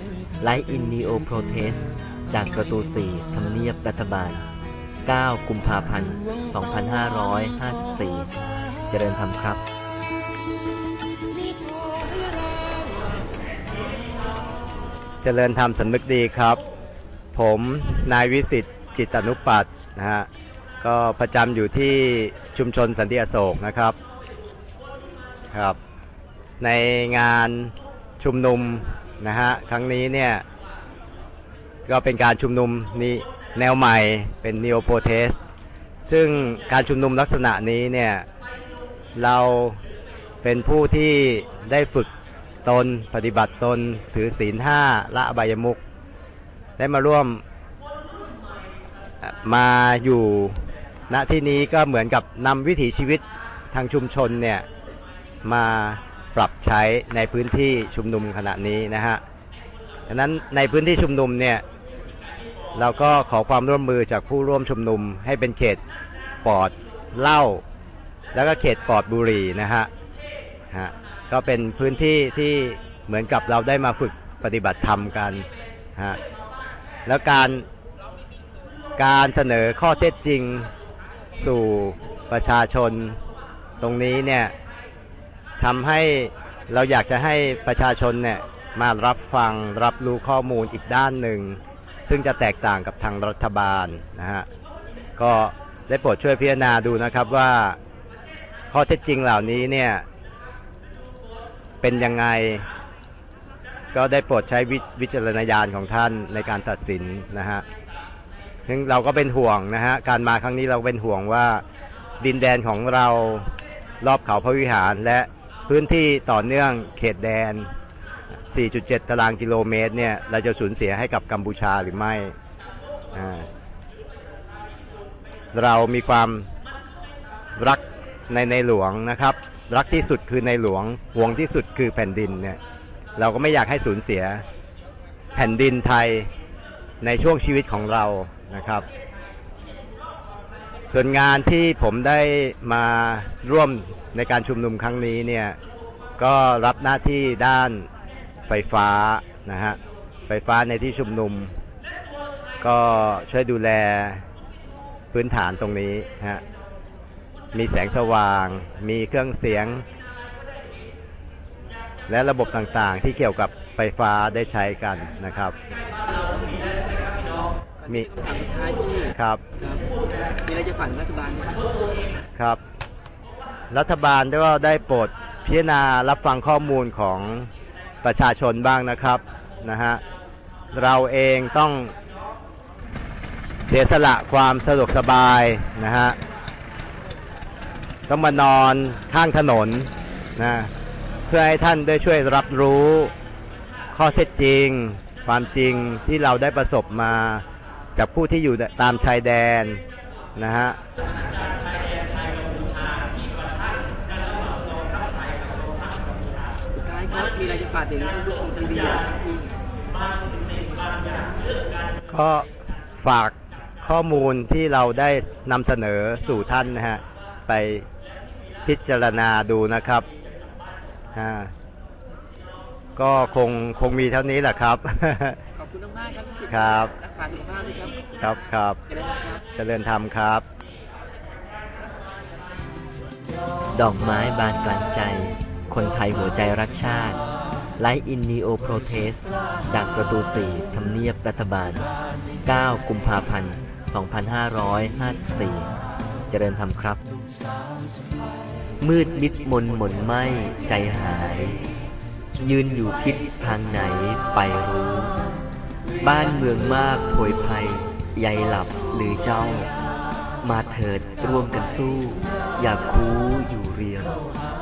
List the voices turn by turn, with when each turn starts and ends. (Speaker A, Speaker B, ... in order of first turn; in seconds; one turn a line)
Speaker A: 0.4-4.4
Speaker A: 5.0-8.3
Speaker A: 8.9-9.6
Speaker B: 15.2-16.6
Speaker B: 17.3-20.3
Speaker B: 20.8-24.0
Speaker B: 25.5-25.8
Speaker B: 26.6-30.4
Speaker B: 31.9-35.4
Speaker B: 36.0-38.2
Speaker B: 39.1-39.8
Speaker B: 40.4-42.1
Speaker B: 42.6-45.8
Speaker B: 46.8-47.4
Speaker B: 49.2-54.6
Speaker B: 55.4-59.2
Speaker B: 60.1-61.6
Speaker B: 62.7-65.8
Speaker B: 66.4-67.6
Speaker B: 68.3-69.9
Speaker B: 70.7-75.5
Speaker B: 77.0-77.7
Speaker B: 79.0-80.7
Speaker B: 81.4-83.2
Speaker B: 83.8-84.5
Speaker B: 85.6-94.5
Speaker B: 95.2-97.8
Speaker B: 98.7-100.0
Speaker B: 101.8-102.7
Speaker B: 103.9-107.6
Speaker B: 108.7-111.6
Speaker B: 112.2-117.7
Speaker B: 118.5-122.3
Speaker B: 123.1-123.5
Speaker B: 125.5-126.5
Speaker B: 127.6-132.6
Speaker B: 133.2-134.4
Speaker B: 135.3-136.3
Speaker B: 137.0-138.8
Speaker B: 140.9-145.6
Speaker B: 146.2-147.9
Speaker B: 148.5-151.6
Speaker B: 152.6-154.2
Speaker B: 155.1-156.4
Speaker B: 157.5-159.8
Speaker B: 162.1-165.6
Speaker C: 167.8-169.8
Speaker B: 169.1-169.4
Speaker C: 170.4-171.6
Speaker B: 172.3-172.6
Speaker B: 173.7-177.5
Speaker B: 178.0-180.0
Speaker B: 180.7-181.9
Speaker B: 183.6-186.2
Speaker B: 188.1-190.7
Speaker B: 191.3-193.1
Speaker B: 193.9-197.4
Speaker B: 197.9-199.8
Speaker B: 200.3-200.8
Speaker C: 206.7-209.6
Speaker B: 212.1-212.5
Speaker B: 213.0-217.8
Speaker B: 218.6-220.1
Speaker B: 221.1-221.5
Speaker B: 222.9-225.4
Speaker C: 225.6-229.4
Speaker B: 226.5-226.9
Speaker B: 228.2-228.8
Speaker B: 229.5-230.4
Speaker A: 233.7-237.2
Speaker A: 237.8-241.8
Speaker A: 242.4-245.7
Speaker A: 246.3-247.0
Speaker A: 248.8-251.6
Speaker A: 252.4-255.1
Speaker A: 256.0-259.7
Speaker A: 260.4-264.2